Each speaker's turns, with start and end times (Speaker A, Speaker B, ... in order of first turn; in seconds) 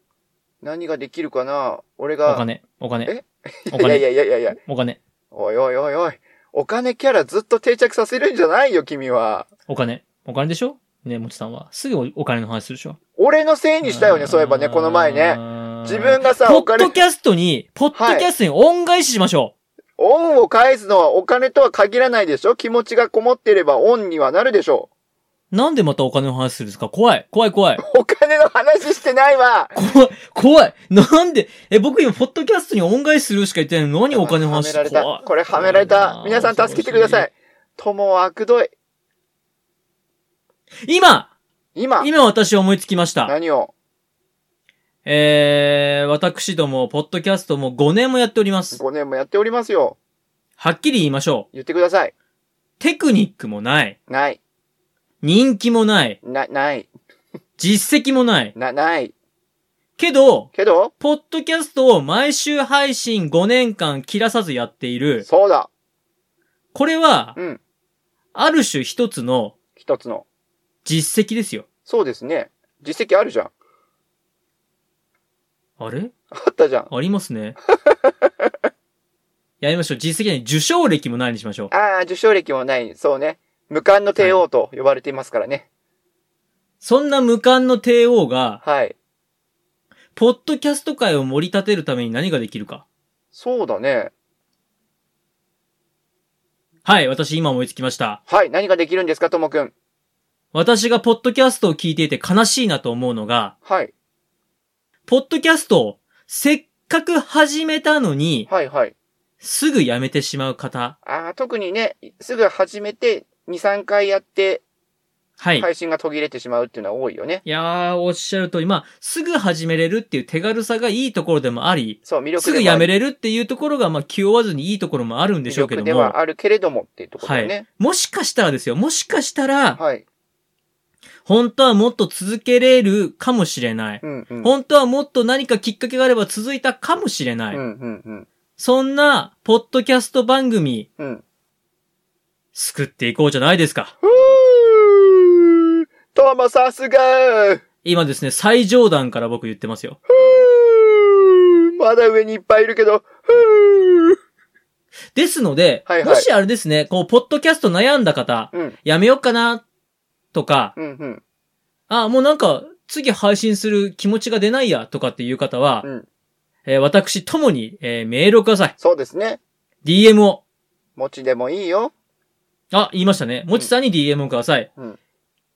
Speaker A: 0.6-2.5, 3.1-4.6, 5.3-9.5, 13.2-17.0, 17.9-18.3, 20.0-24.9, 27.8-29.7, 34.1-38.7, 41.8-42.1, 43.3-43.7, 48.7-50.0, 51.5-52.1, 54.1-54.4, 56.2-56.9, 58.6-59.1, 60.5-60.9, 65.2-65.7, 69.8-70.2, 71.9-73.5, 76.3-76.9, 77.7-78.5, 81.7-85.7, 88.6-89.0, 93.3-94.1, 98.3-99.7, 103.7-103.9, 108.5-108.9, 111.0-114.6, 115.6-117.4, 122.0-122.9, 125.5-127.7, 129.8-130.1, 134.0-134.5, 137.5-138.3, 144.0-145.6, 146.1-147.6, 150.1-154.2, 155.9-156.3, 160.8-161.2, 168.8-169.4, 171.0-171.9
Speaker B: 2.3-3.1, 3.7-5.0, 9.7-13.0, 13.8-19.5, 25.5-27.8, 29.8-37.3, 40.9-41.3, 42.0-43.4, 45.0-48.8, 50.6-51.5, 52.8-54.0, 55.2-56.2, 57.6-58.5, 60.0-65.3, 66.7-67.4, 68.3-69.5, 70.8-71.7, 75.8-76.1, 76.9-77.6, 79.6-81.7, 84.2-84.4, 86.8-88.6, 90.2-92.8, 96.8-98.2, 100.5-103.5, 105.1-108.5, 109.4-111.0, 115.4-115.7, 117.5-126.2, 127.2-129.8, 131.2-137.6, 138.6-140.9, 142.5-143.9, 147.8-150.0, 155.1-159.6, 160.3-160.8, 161.9-165.9, 166.7-168.8, 169.8-170.4, 172.7-174.7